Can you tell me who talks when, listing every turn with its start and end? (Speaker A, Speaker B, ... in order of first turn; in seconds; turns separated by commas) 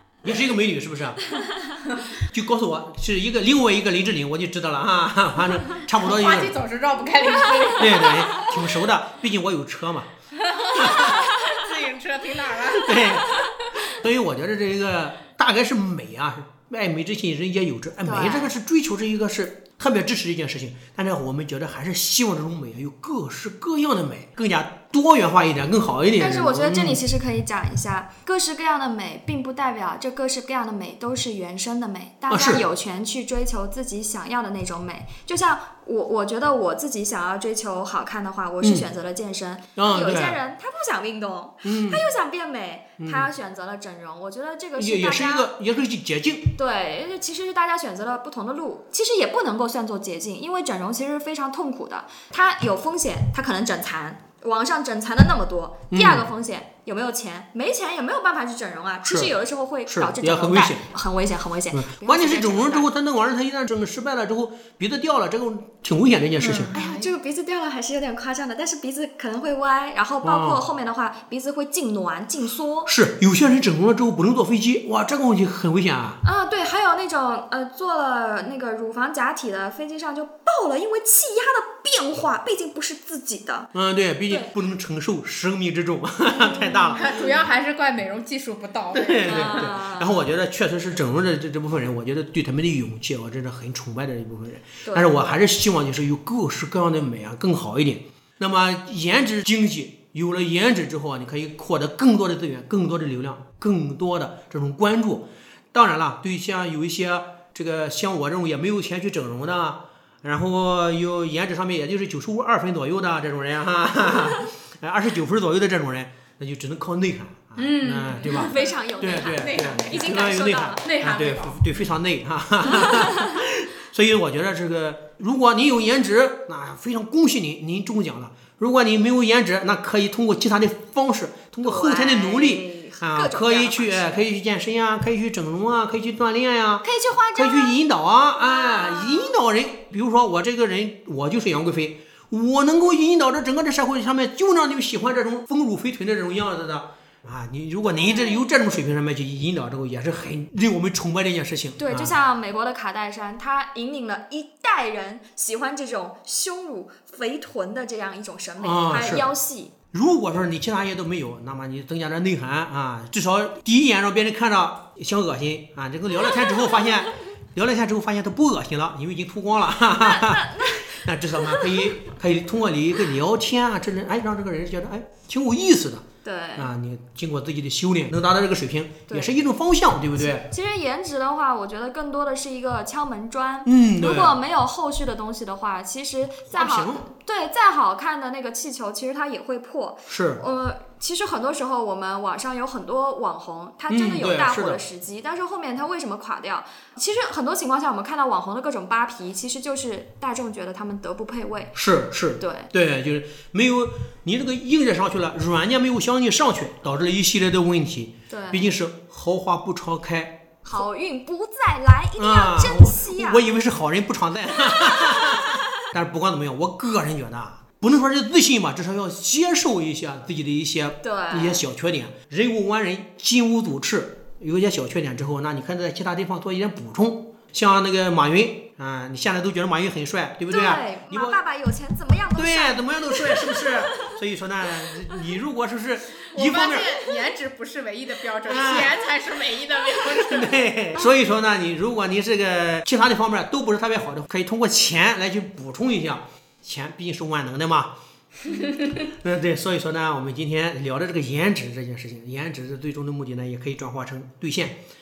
Speaker A: 0.2-1.3, Speaker B: 1.4-1.7, Speaker A: 2.1-6.5, Speaker C: 6.0-8.5, Speaker A: 7.8-10.1, Speaker C: 10.4-13.3, Speaker A: 10.7-11.2, Speaker A: 12.7-27.0, Speaker B: 18.0-18.6, Speaker B: 26.2-45.5, Speaker A: 32.3-32.6, Speaker A: 38.6-38.9, Speaker A: 39.8-40.4, Speaker A: 41.6-42.0, Speaker A: 43.0-43.3, Speaker A: 44.8-46.5, Speaker B: 46.5-62.9, Speaker A: 55.9-56.3, Speaker A: 59.0-59.3, Speaker A: 59.9-60.9, Speaker A: 61.7-66.7, Speaker C: 66.4-67.1, Speaker B: 66.7-72.9, Speaker A: 70.2-70.6, Speaker A: 72.9-76.2, Speaker B: 76.2-83.7, Speaker A: 83.7-87.3, Speaker B: 86.2-87.2, Speaker C: 87.0-89.8, Speaker A: 88.9-152.2, Speaker B: 89.2-90.3, Speaker B: 94.8-95.3, Speaker C: 117.6-121.6, Speaker B: 118.3-120.9, Speaker B: 122.7-123.3, Speaker B: 131.6-134.2, Speaker B: 136.8-137.8, Speaker B: 138.4-139.4, Speaker B: 147.9-148.4, Speaker B: 151.8-159.7, Speaker A: 158.6-159.3, Speaker A: 159.9-176.0, Speaker B: 170.0-171.8, Speaker B: 176.2-176.7, Speaker A: 176.6-180.5, Speaker B: 179.1-179.3, Speaker B: 180.2-201.8, Speaker A: 183.7-184.4, Speaker A: 186.5-187.1, Speaker A: 190.1-190.4, Speaker A: 193.9-194.8, Speaker A: 201.8-210.4, Speaker B: 202.4-202.7, Speaker B: 208.3-208.7, Speaker B: 210.6-213.5, Speaker A: 212.2-231.4, Speaker B: 214.7-215.6, Speaker B: 221.0-221.7, Speaker B: 230.5-234.1, Speaker A: 232.3-237.1, Speaker C: 236.3-240.6, Speaker A: 238.4-239.0, Speaker A: 240.0-247.9, Speaker A: 248.5-254.8